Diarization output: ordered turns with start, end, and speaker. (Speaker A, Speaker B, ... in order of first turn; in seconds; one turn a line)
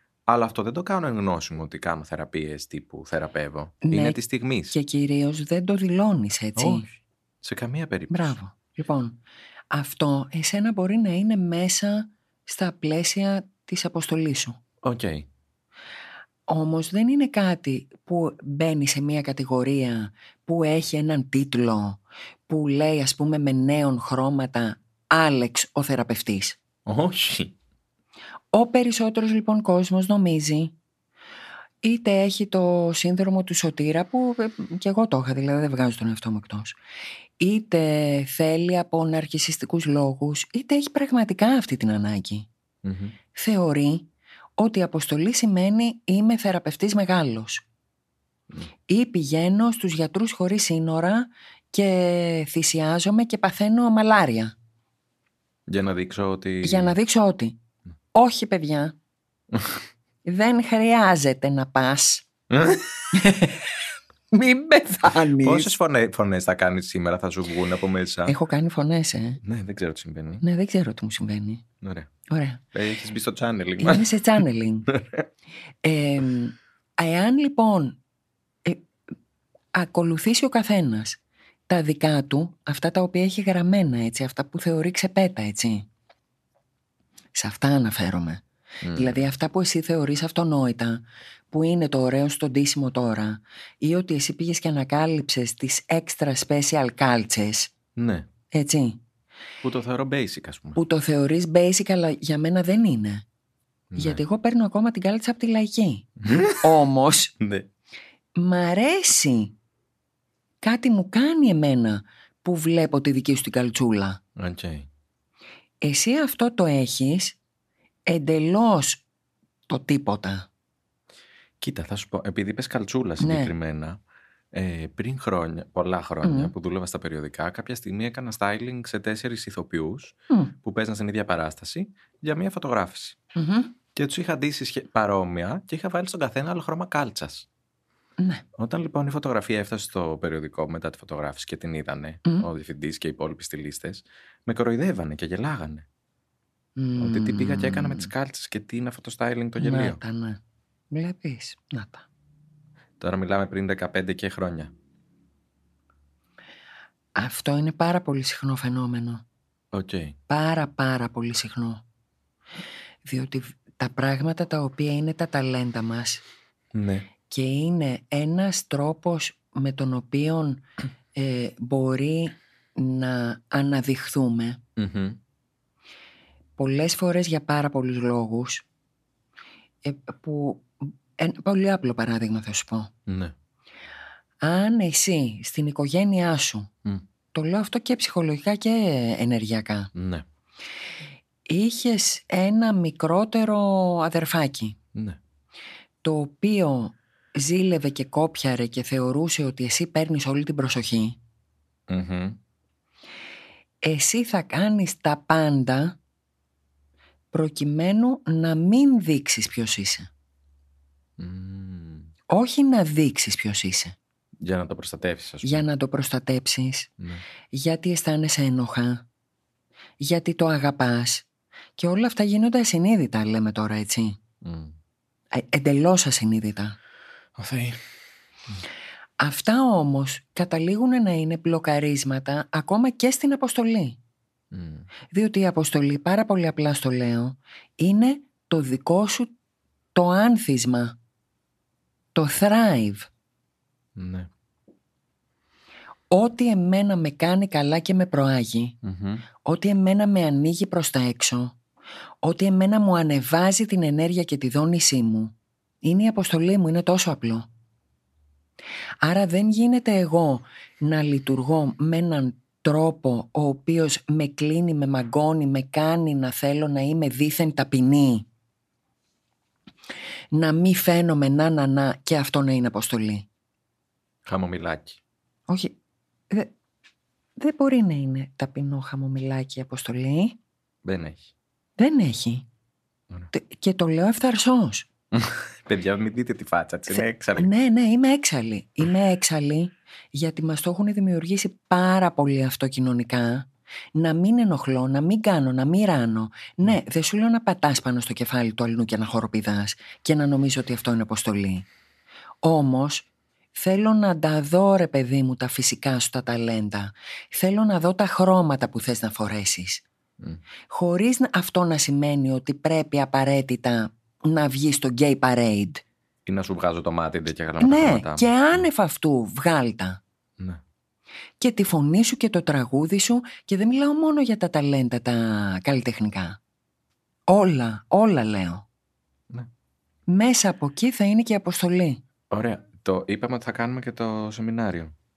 Speaker A: 0.3-4.8
Speaker B: 3.8-6.9
Speaker A: 6.6-8.4
Speaker B: 8.1-9.2
Speaker B: 9.7-14.6
Speaker A: 14.8-15.3
Speaker B: 16.5-26.6
Speaker A: 26.9-27.6
Speaker B: 28.5-30.7
Speaker B: 31.8-36.8
Speaker B: 37.4-42.5
Speaker A: 42.8-43.1
Speaker B: 43.3-47.6
Speaker B: 48.9-54.5
Speaker A: 55.7-56.9
Speaker B: 56.6-57.6
Speaker B: 58.1-58.9
Speaker A: 59.5-59.8
Speaker B: 60.2-62.2
Speaker A: 62.5-63.1
Speaker B: 63.1-63.8
Speaker B: 64.3-65.7
Speaker A: 65.4-68.3
Speaker B: 68.2-69.4
Speaker A: 69.4-70.4
Speaker B: 70.4-71.6
Speaker A: 71.8-72.1
Speaker B: 72.3-72.6
Speaker A: 72.7-74.1
Speaker B: 73.8-74.9
Speaker A: 74.9-75.2
Speaker B: 75.8-78.0
Speaker B: 79.7-85.9
Speaker B: 87.3-88.4
Speaker A: 88.8-89.2
Speaker B: 88.9-97.7
Speaker A: 98.0-98.3
Speaker B: 98.5-99.0
Speaker A: 99.6-100.8
Speaker B: 100.8-103.2
Speaker A: 103.9-104.2
Speaker B: 104.0-107.3
Speaker A: 106.2-106.7
Speaker A: 107.4-107.7
Speaker B: 108.4-109.5
Speaker B: 110.6-114.2
Speaker A: 114.4-114.9
Speaker B: 115.8-117.4
Speaker B: 118.1-119.0
Speaker B: 119.7-120.5
Speaker A: 121.6-124.0
Speaker B: 123.2-123.5
Speaker A: 124.5-133.2
Speaker B: 126.2-126.5
Speaker B: 133.3-133.7
Speaker A: 133.9-137.5
Speaker B: 138.2-138.4
Speaker A: 138.6-145.9
Speaker B: 146.8-148.1
Speaker A: 147.0-150.0
Speaker B: 149.6-150.4
Speaker B: 150.9-152.1
Speaker A: 153.0-154.7
Speaker B: 157.2-159.2
Speaker A: 159.7-160.2
Speaker B: 160.3-161.8
Speaker B: 163.1-166.2
Speaker A: 166.7-167.1
Speaker B: 167.3-174.6
Speaker A: 174.8-175.2
Speaker B: 176.6-178.6
Speaker B: 179.8-182.9
Speaker A: 183.1-183.3
Speaker B: 184.4-186.7
Speaker B: 187.3-189.9
Speaker A: 189.9-190.2
Speaker B: 191.5-194.8
Speaker B: 196.0-201.2
Speaker A: 201.9-202.4
Speaker B: 203.8-206.0
Speaker B: 207.3-210.1
Speaker A: 211.2-212.1
Speaker B: 212.3-213.9
Speaker A: 214.4-215.6
Speaker B: 215.4-216.9
Speaker B: 217.5-219.1
Speaker B: 220.0-221.2
Speaker B: 221.8-224.2
Speaker A: 224.4-224.7
Speaker B: 225.3-226.8
Speaker A: 227.4-227.8
Speaker B: 229.2-234.0
Speaker A: 234.5-234.9
Speaker B: 235.1-239.3
Speaker B: 239.9-240.9
Speaker B: 242.1-243.1
Speaker A: 243.9-244.3
Speaker B: 246.1-248.8
Speaker A: 248.8-249.2
Speaker B: 249.4-251.6
Speaker B: 252.2-257.5
Speaker B: 259.0-268.3
Speaker B: 270.3-273.2
Speaker A: 274.2-275.0
Speaker B: 275.5-275.7
Speaker B: 277.4-280.4
Speaker A: 280.8-281.3
Speaker B: 281.8-282.4
Speaker B: 283.3-284.9
Speaker A: 285.1-287.5
Speaker B: 286.9-301.7
Speaker B: 302.4-309.9
Speaker B: 310.7-315.8
Speaker A: 316.2-318.6
Speaker B: 317.6-320.0
Speaker B: 321.4-326.4
Speaker B: 327.3-328.6
Speaker B: 330.1-332.0
Speaker A: 332.3-334.9